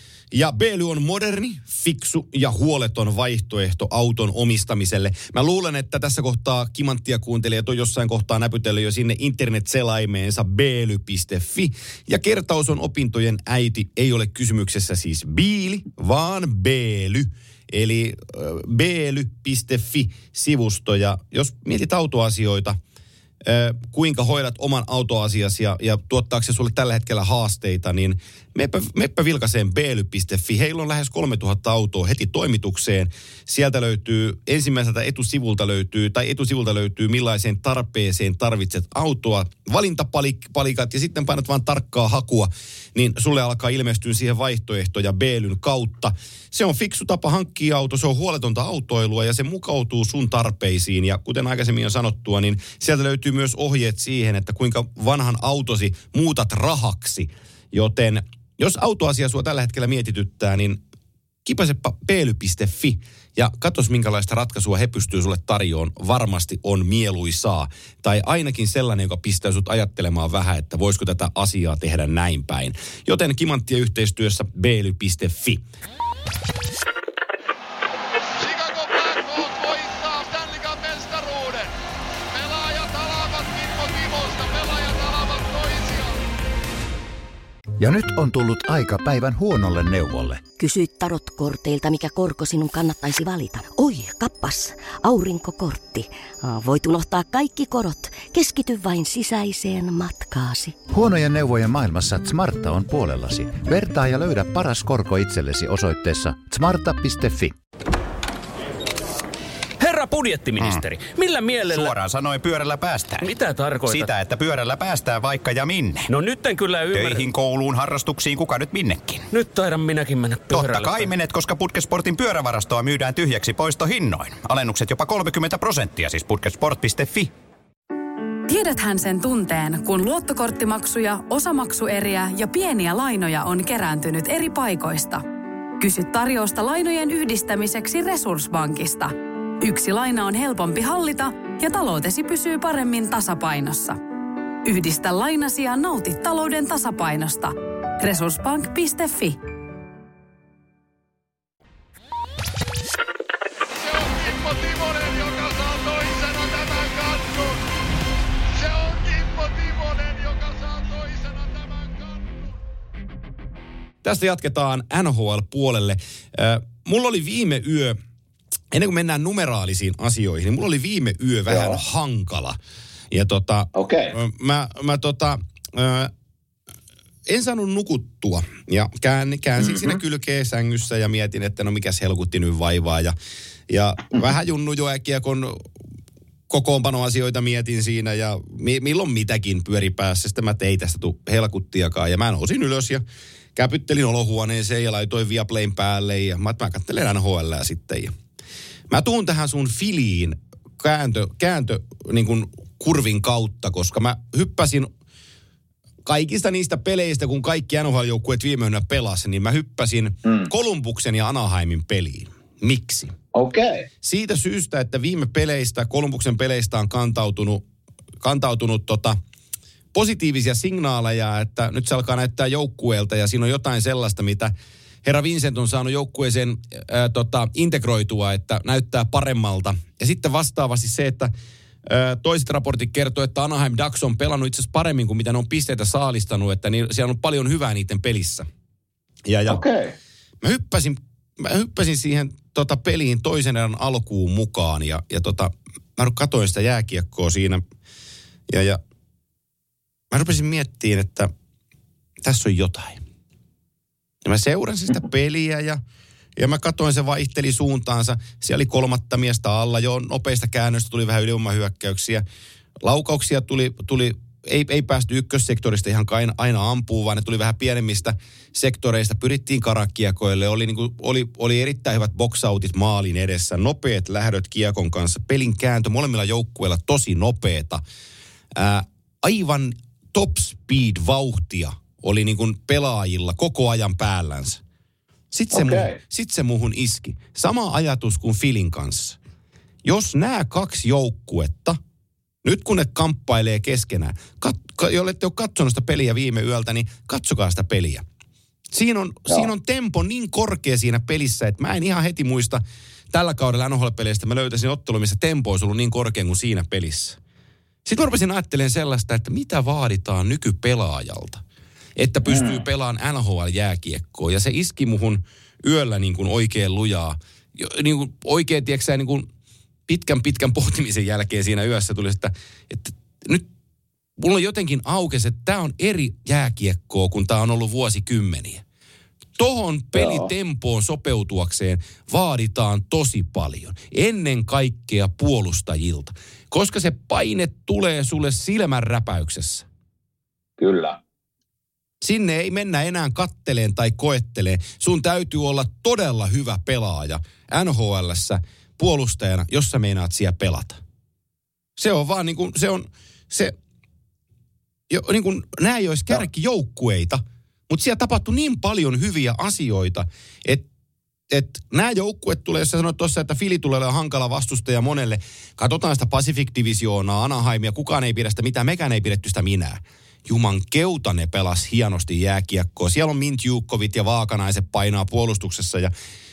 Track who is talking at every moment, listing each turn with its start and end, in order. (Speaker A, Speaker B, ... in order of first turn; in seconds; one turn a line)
Speaker A: 0.3-22.8
Speaker A: 23.4-60.8
Speaker A: 61.5-75.6
Speaker B: 78.4-81.8
Speaker B: 82.3-86.2
Speaker C: 87.8-90.5
Speaker D: 90.6-100.8
Speaker C: 100.9-107.6
Speaker E: 109.8-112.0
Speaker F: 111.7-113.3
Speaker E: 113.2-114.1
Speaker F: 113.8-116.1
Speaker E: 116.1-117.3
Speaker F: 116.9-119.3
Speaker E: 119.3-121.1
Speaker F: 120.5-127.3
Speaker G: 128.5-135.2
Speaker G: 135.8-144.0
Speaker G: 144.7-149.4
Speaker B: 153.7-157.6
Speaker B: 158.5-162.6
Speaker A: 164.0-168.0
Speaker A: 168.7-172.6
Speaker H: 171.5-171.8
Speaker A: 173.1-176.1
Speaker H: 173.8-174.2
Speaker A: 177.3-183.2
Speaker H: 179.6-180.0
Speaker A: 183.7-185.6
Speaker A: 186.5-193.0
Speaker A: 193.6-198.1
Speaker A: 198.9-204.9
Speaker A: 206.0-213.1
Speaker H: 210.2-210.5
Speaker H: 213.3-213.9
Speaker A: 214.0-217.6
Speaker A: 218.2-219.2
Speaker A: 219.9-224.5
Speaker A: 225.0-231.3
Speaker A: 231.9-238.5
Speaker A: 239.3-239.6
Speaker H: 239.5-239.9
Speaker A: 240.4-247.6
Speaker A: 248.5-248.8
Speaker A: 250.1-251.3
Speaker A: 252.2-253.0
Speaker A: 254.2-255.8
Speaker A: 256.4-262.2
Speaker A: 262.8-277.8
Speaker A: 278.5-284.6
Speaker A: 285.3-289.2
Speaker H: 285.5-286.0
Speaker A: 289.8-291.8
Speaker A: 292.4-298.1
Speaker A: 298.7-307.2
Speaker A: 307.9-311.4
Speaker A: 312.0-319.3
Speaker H: 312.2-312.6
Speaker A: 319.9-323.5
Speaker A: 324.2-328.6
Speaker A: 329.4-339.7
Speaker H: 329.9-330.3
Speaker H: 340.6-341.0
Speaker A: 342.0-350.8
Speaker A: 351.8-353.6
Speaker A: 354.9-360.6
Speaker A: 361.3-375.9